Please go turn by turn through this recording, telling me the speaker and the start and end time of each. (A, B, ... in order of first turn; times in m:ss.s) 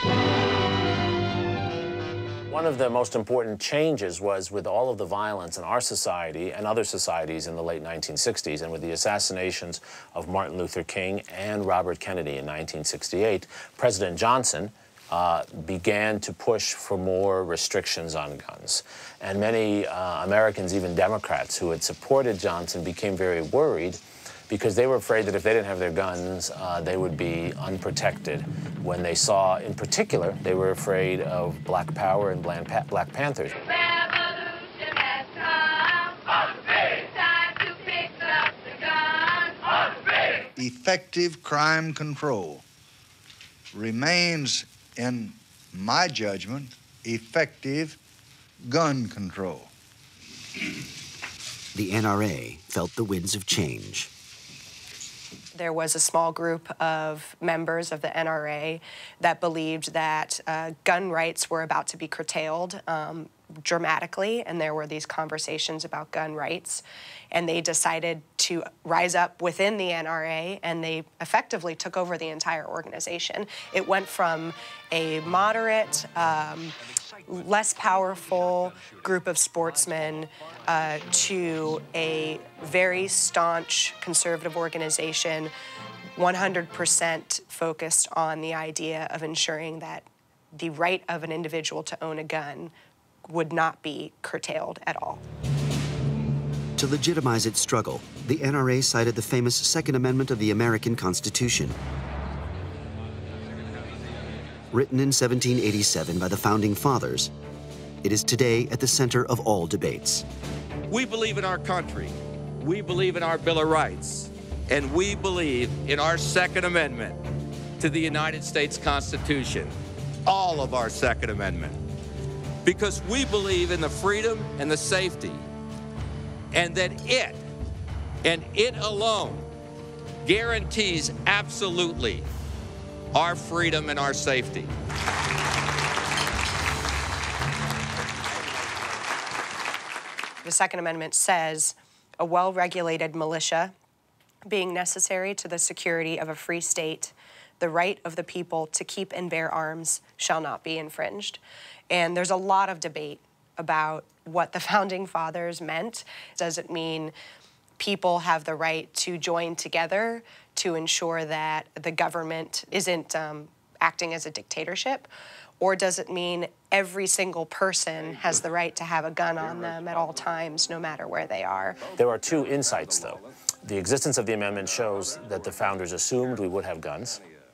0:02.5-0:33.6 A
0:40.6-0:42.6 B
0:43.7-0:48.0 B
0:48.6-0:49.7 B
0:51.7-0:54.1 C
0:55.5-1:16.8 D
1:17.3-1:25.5 D
1:26.2-1:32.7 D
1:33.2-1:35.2 D
1:36.8-1:41.8 C
1:44.7-1:47.3 C
1:48.0-1:50.2 C
1:50.9-1:57.2 E
1:57.8-2:01.8 E
2:02.6-2:05.4 E
2:06.5-2:07.4 E
2:08.2-2:09.5 E
2:10.2-2:12.3 E
2:13.1-2:14.7 E
2:20.4-2:23.7 D
2:24.4-2:37.1 D
2:37.8-2:45.1 D
2:45.6-2:51.8 D
2:52.0-2:57.2 A